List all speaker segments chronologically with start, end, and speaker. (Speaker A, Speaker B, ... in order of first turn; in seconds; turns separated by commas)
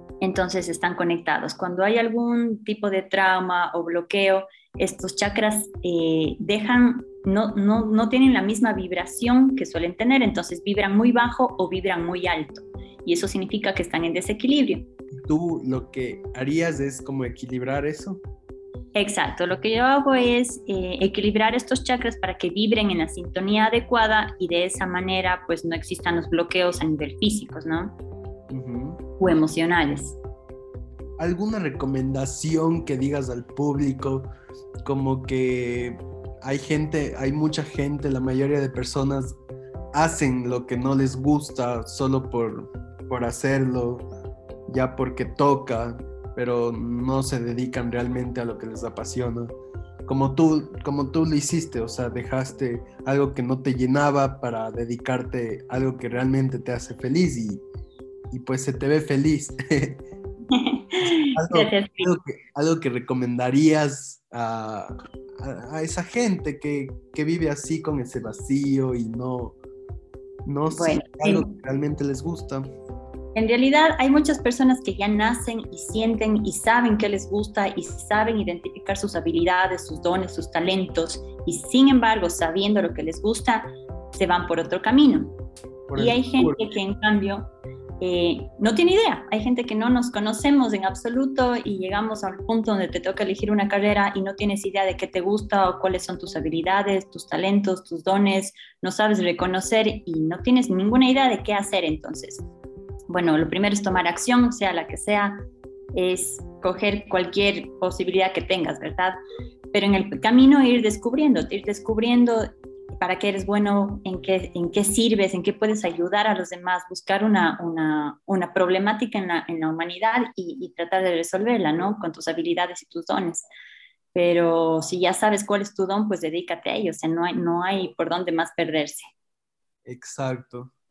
Speaker A: 0.2-14.9, Speaker B: 15.1-18.2, Speaker A: 18.9-27.9, Speaker B: 28.5-29.0, Speaker A: 29.2-30.2, Speaker B: 31.2-34.3, Speaker B: 34.8-39.4, Speaker B: 39.9-44.0, Speaker B: 44.7-49.5, Speaker B: 50.1-57.6, Speaker B: 58.3-60.0, Speaker A: 60.5-62.1, Speaker B: 61.0-69.6, Speaker B: 70.5-72.7, Speaker A: 70.7-71.5, Speaker A: 73.3-85.4, Speaker B: 85.9-86.6, Speaker A: 85.9-102.5, Speaker A: 103.1-109.2, Speaker A: 109.7-123.5, Speaker A: 124.1-129.1, Speaker B: 129.8-130.7